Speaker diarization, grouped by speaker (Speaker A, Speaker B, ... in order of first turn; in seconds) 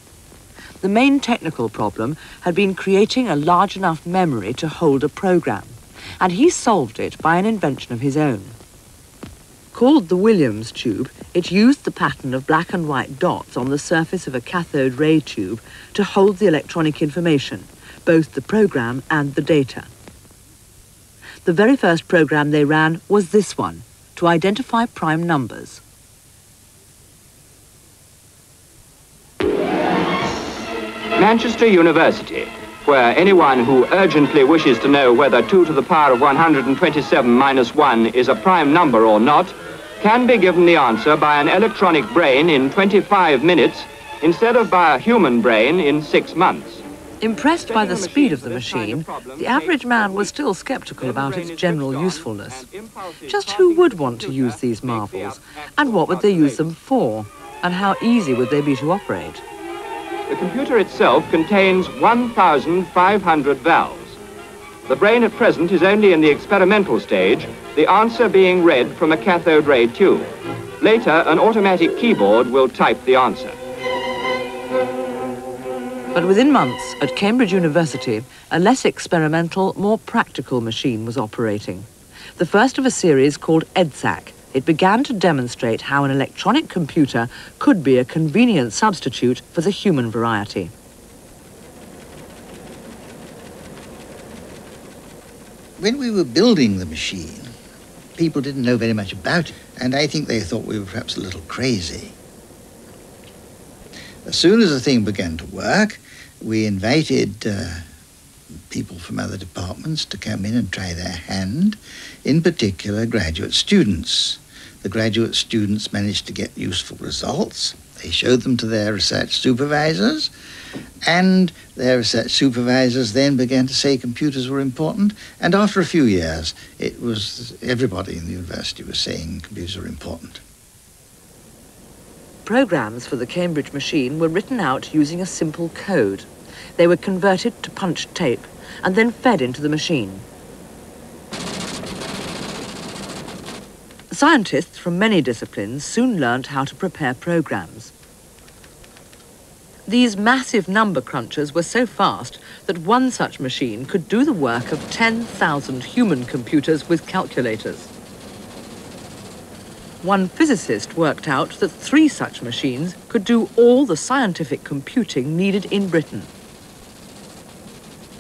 Speaker A: 0.8-8.6, 9.7-19.9, 21.4-25.8, 47.2-52.7, 53.3-59.4, 76.1-90.7, 132.4-140.2, 144.1-147.9, 149.9-157.9, 160.0-166.3
Speaker B: 31.2-46.8, 47.6-50.3, 51.0-56.6, 60.3-64.2, 64.9-70.3, 70.8-73.6
Speaker C: 95.8-97.5, 98.2-102.1, 104.3-107.8, 108.7-120.3, 121.0-130.4